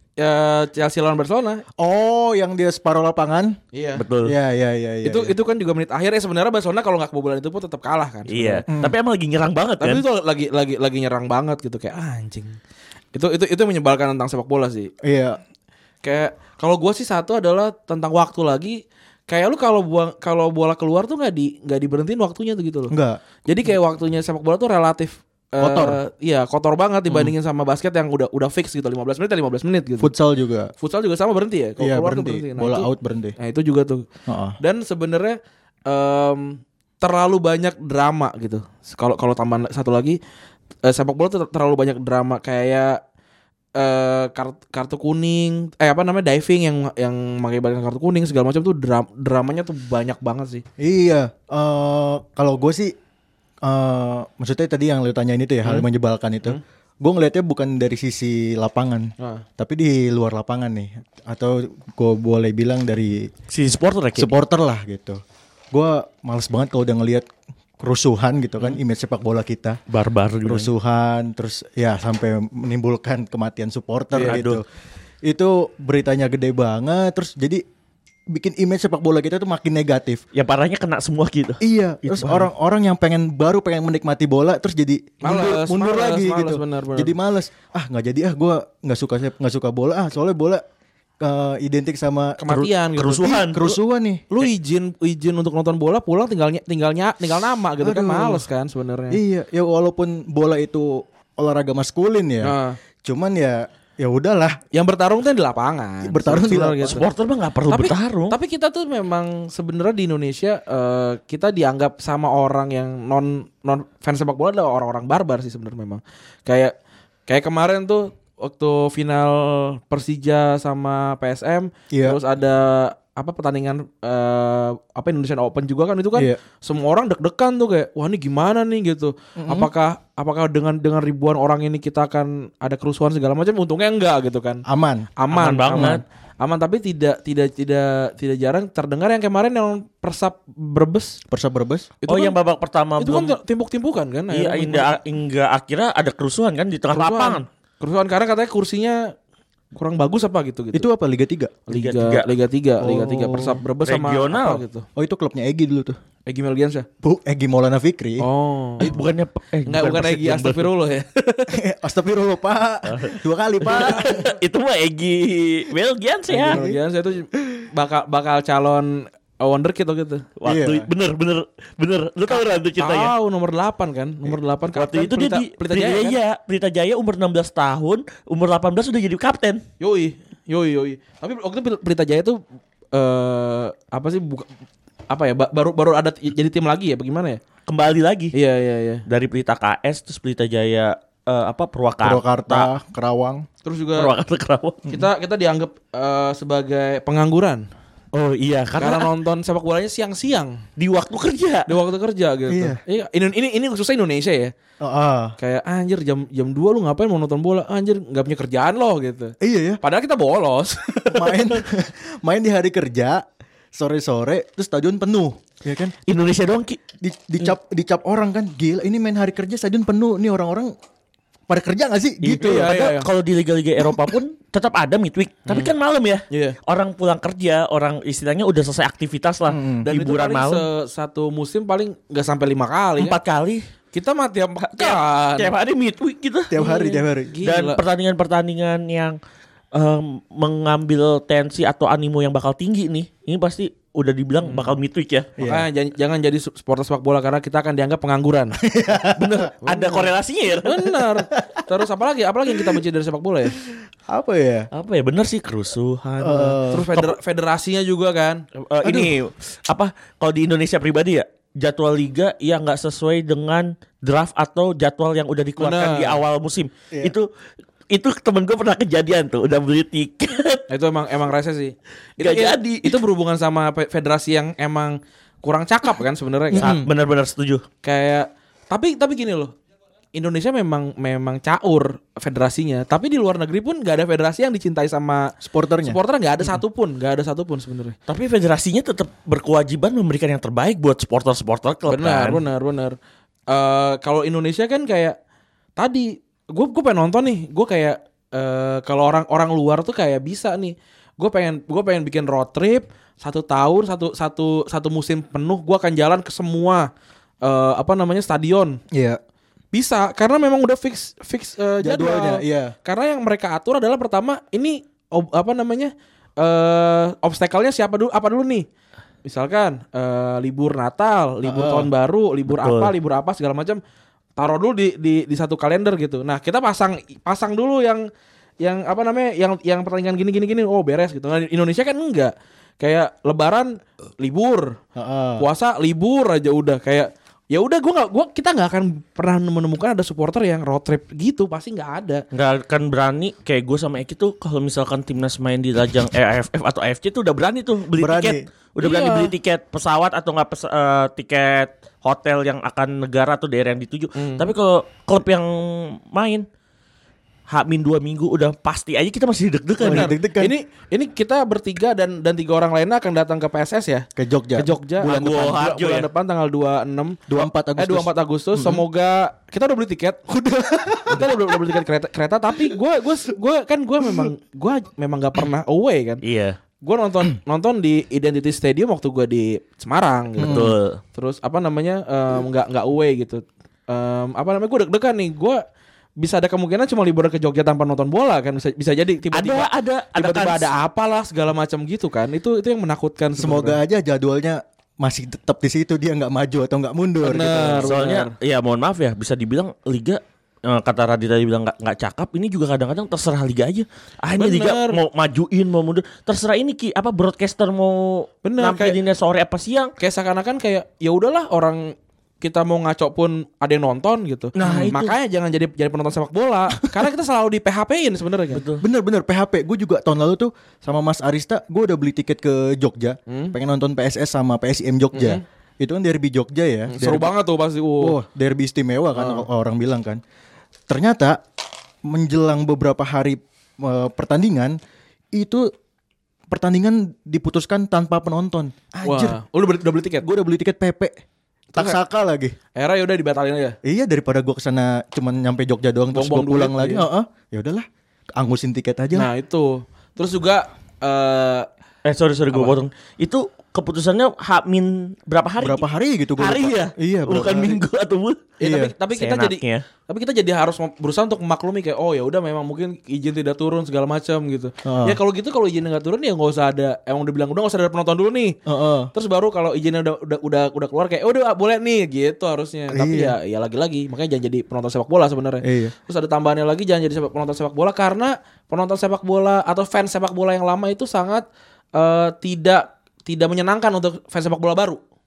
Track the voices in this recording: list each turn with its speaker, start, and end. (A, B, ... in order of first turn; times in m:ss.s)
0:00.2-0:01.6 A
0:01.8-0:03.6 B
0:03.7-0:04.0 A
0:04.0-0:04.3 C
0:04.2-0:05.3 B
0:05.0-0:08.6 A
0:08.3-0:10.0 C
0:08.7-0:08.9 B
0:09.8-0:12.6 A
0:13.1-0:14.9 A
0:15.0-0:15.4 B
0:16.0-0:22.9 A
0:22.9-0:23.2 B
0:23.4-0:30.1 A
0:25.6-0:26.0 B
0:30.0-0:30.7 B
0:30.8-0:34.0 A
0:31.8-0:33.4 B
0:34.3-0:34.6 B
0:34.6-0:40.2 A
0:40.8-0:43.0 A
0:43.8-0:50.6 A
0:50.8-0:52.9 B
0:53.6-1:03.3 B
0:59.2-0:59.4 A
1:03.5-1:04.3 C
1:04.2-1:05.2 B
1:05.7-1:07.2 B
1:07.8-1:09.8 B
1:09.9-1:10.7 C
1:10.4-1:14.6 B
1:14.1-1:14.4 A
1:14.2-1:14.6 C
1:15.2-1:17.6 B
1:18.3-1:20.2 B
1:20.3-1:22.5 C
1:21.6-1:30.6 B
1:25.2-1:27.1 A
1:31.2-1:32.5 B
1:32.4-1:33.4 A
1:32.5-1:33.8 C
1:33.2-1:34.2 B
1:34.3-1:39.2 A
1:37.8-1:38.5 B
1:39.1-1:44.6 B
1:42.4-1:42.8 A
1:44.7-1:47.1 A
1:46.0-1:46.9 B
1:46.8-1:48.4 C
1:47.7-1:56.7 A
1:57.3-2:14.6 A
2:01.9-2:02.2 B
2:09.4-2:09.7 B
2:14.6-2:15.1 B
2:15.2-2:21.2 A
2:15.3-2:16.0 C
2:21.3-2:21.9 B
2:22.0-2:22.4 A
2:22.1-2:23.4 C
2:23.0-2:24.9 A
2:24.3-2:27.4 C
2:26.9-2:29.1 A
2:29.7-2:30.9 A
2:30.7-2:31.5 B
2:31.7-2:34.8 A
2:31.7-2:32.3 C
2:32.8-2:33.6 B
2:33.8-2:34.6 C
2:35.0-2:36.0 B
2:36.3-2:36.9 A
2:37.0-2:38.2 B
2:38.2-2:39.0 A
2:38.8-2:40.7 C
2:39.7-2:41.5 A
2:41.5-2:44.2 B
2:42.8-2:46.6 C
2:43.6-2:44.3 A
2:46.3-2:50.3 A
2:46.4-2:46.8 B
2:50.4-2:53.1 C
2:50.4-2:50.9 B
2:52.3-2:56.2 A
2:54.7-2:59.6 C
2:59.8-3:02.4 A
3:02.9-3:04.5 A
3:05.1-3:07.4 A
3:07.7-3:08.3 C
3:08.3-3:09.0 A
3:09.1-3:12.7 C
3:12.0-3:13.5 B
3:13.6-3:14.1 A
3:14.0-3:14.9 C
3:14.9-3:17.7 A
3:18.1-3:19.1 C
3:18.8-3:20.6 A
3:20.8-3:21.7 C
3:21.7-3:24.5 A
3:22.5-3:22.8 B
3:24.8-3:25.3 B
3:25.4-3:31.6 A
3:29.4-3:29.8 B
3:31.1-3:35.9 B
3:36.0-3:36.8 C
3:37.0-3:40.7 B
3:41.5-3:42.7 B
3:42.2-3:50.6 C
3:42.4-3:43.1 A
3:45.5-3:45.7 A
3:46.3-3:46.6 A
3:49.5-3:49.9 B
3:49.8-3:53.2 A
3:53.0-3:53.6 C
3:53.9-3:55.5 A
3:54.6-3:59.2 C
3:56.5-3:57.4 B
3:56.6-3:57.8 A
3:59.7-4:05.3 C
4:04.4-4:04.8 A
4:05.4-4:05.6 B
4:05.4-4:08.6 A
4:08.6-4:09.5 B
4:09.1-4:10.7 C
4:09.6-4:13.6 A
4:11.3-4:11.6 B
4:13.7-4:14.7 B
4:14.7-4:17.1 C
4:16.2-4:16.9 B
4:16.7-4:18.4 A
4:18.6-4:27.3 C
4:18.8-4:19.1 B
4:25.6-4:26.2 A
4:27.9-4:30.6 C
4:30.7-4:36.7 A
4:32.2-4:33.0 C
4:36.5-4:36.9 B
4:36.5-4:37.6 C
4:37.8-4:39.5 A
4:40.1-4:45.3 A
4:45.4-4:46.0 B
4:45.8-4:48.0 A
4:48.1-4:52.4 C
4:51.9-4:53.0 A
4:53.5-4:55.2 A
4:55.8-5:06.9 A
5:07.4-5:08.8 A
5:08.9-5:09.2 B
5:09.7-5:18.6 A
5:11.8-5:12.7 B
5:19.2-5:23.8 A
5:21.4-5:21.9 B
5:22.5-5:22.9 C
5:24.4-5:28.0 A
5:28.6-5:34.8 A
5:35.0-5:35.4 B
5:35.4-5:42.2 A
5:42.3-5:56.4 C
5:48.0-5:48.4 B
5:48.8-5:49.3 A
5:54.2-5:54.4 A
5:57.5-6:00.1 C
5:59.8-6:00.5 B
5:59.8-6:10.4 A
6:04.2-6:04.7 B
6:05.0-6:06.1 C
6:07.3-6:08.8 B
6:10.4-6:11.3 B
6:11.0-6:16.2 A
6:16.2-6:16.6 C
6:16.8-6:25.6 A
6:20.4-6:20.7 B
6:20.4-6:21.0 C
6:26.2-6:33.8 A
6:29.3-6:30.7 C
6:33.4-6:37.9 B
6:37.2-6:38.3 A
6:37.8-6:49.9 C
6:44.4-6:45.0 A
6:48.4-6:49.0 A
6:50.0-6:58.6 A
6:54.6-6:55.1 C
6:54.6-6:54.9 B
6:58.5-6:58.8 C
6:58.8-7:07.3 B
7:03.3-7:03.5 A
7:05.1-7:05.4 A
7:06.9-7:08.2 A
7:08.0-7:10.2 B
7:09.1-7:09.4 A
7:10.9-7:11.4 B
7:12.0-7:14.8 B
7:15.3-7:15.7 B
7:16.5-7:19.4 B
7:19.0-7:20.2 A
7:20.2-7:21.2 B
7:21.8-7:22.5 B
7:22.8-7:23.8 A
7:23.8-7:29.3 B
7:26.1-7:27.0 A
7:29.1-7:31.7 A
7:32.0-7:35.8 C
7:35.6-7:37.8 B
7:36.4-7:38.5 C
7:38.6-7:48.6 A
7:38.6-7:38.9 B
7:39.1-7:39.8 C
7:44.8-7:45.2 B
7:48.6-7:49.1 B
7:49.1-8:05.0 A
7:52.9-7:53.4 B
7:55.6-7:55.9 B